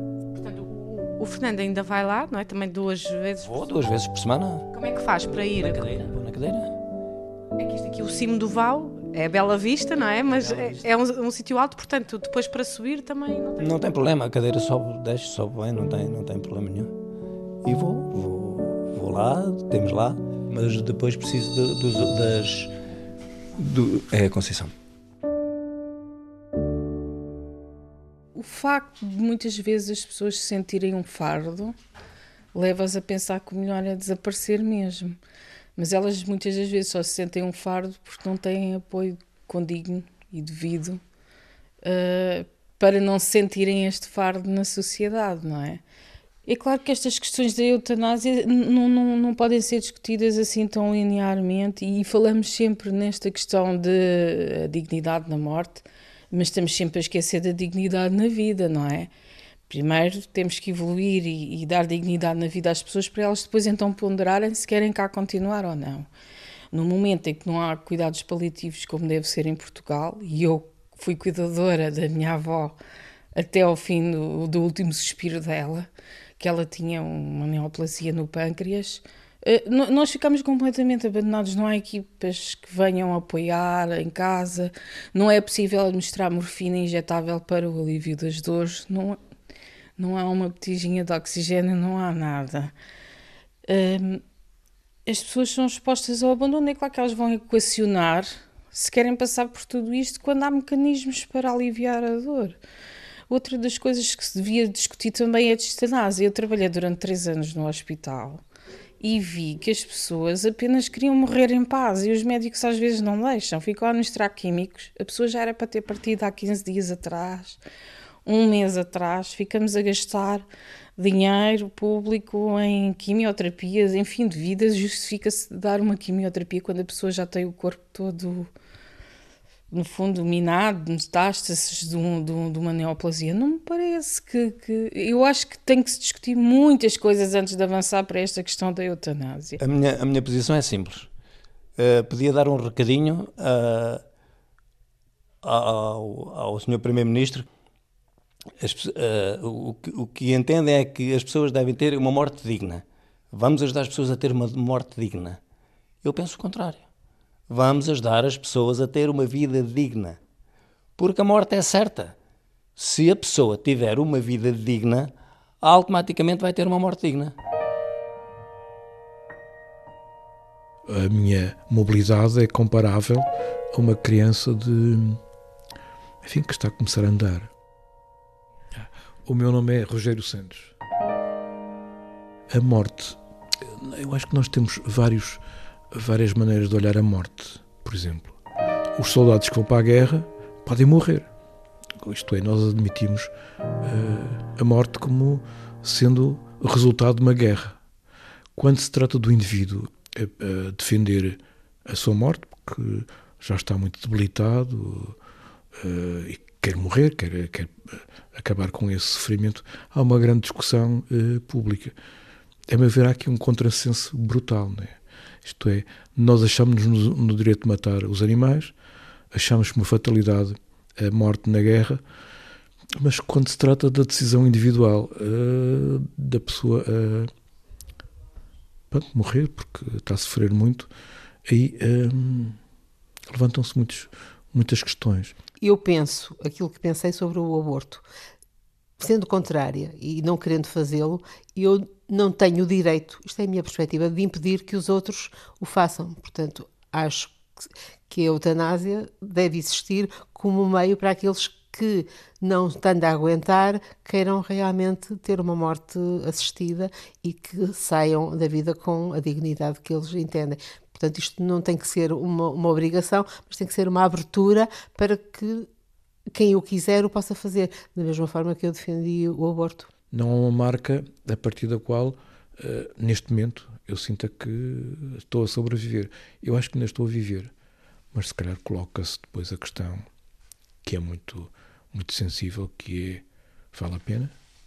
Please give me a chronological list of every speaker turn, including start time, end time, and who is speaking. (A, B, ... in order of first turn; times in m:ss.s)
0:00.3-0:03.7 A
0:03.4-0:04.6 B
0:04.7-0:05.9 A
0:05.3-0:06.7 B
0:07.6-0:13.8 A
0:10.3-0:10.8 B
0:13.6-0:16.9 B
0:17.6-0:22.7 B
0:23.6-0:24.7 B
0:28.3-0:31.7 C
0:32.5-0:35.2 C
0:35.8-0:41.0 C
0:41.8-0:45.8 C
0:46.4-0:59.1 C
0:59.7-1:06.1 C
1:06.7-1:12.8 C
1:13.3-1:29.2 C
1:30.0-1:32.7 C
1:33.6-1:34.2 C
1:35.0-1:42.6 C
1:43.3-1:48.4 C
1:49.0-1:57.6 C
1:58.2-2:00.5 C
2:01.0-2:08.5 C
2:09.7-2:19.6 C
2:19.6-2:21.1 B
2:21.8-2:24.0 B
2:25.5-2:27.4 B
2:28.6-2:32.8 B
2:33.3-2:35.4 B
2:36.0-2:36.8 B
2:37.5-2:40.2 B
2:41.0-2:42.1 B
2:42.8-2:45.1 B
2:45.6-2:47.3 B
2:50.8-2:55.2 D
2:56.2-2:57.5 D
2:58.7-3:00.7 D
3:02.5-3:08.4 D
3:08.9-3:11.3 D
3:12.0-3:13.3 D
3:13.8-3:17.8 D
3:18.6-3:25.2 D
3:25.7-3:32.0 D
3:32.7-3:38.7 D
3:39.3-3:42.0 D
3:42.9-3:47.3 D
3:48.9-3:50.9 D
3:51.4-3:52.6 D
3:53.3-3:55.4 D
3:55.6-3:58.0 E
3:59.0-4:07.4 E
4:08.1-4:25.7 E
4:26.3-4:29.9 E
4:30.1-4:37.5 D
4:38.1-4:40.1 D
4:40.8-4:44.3 D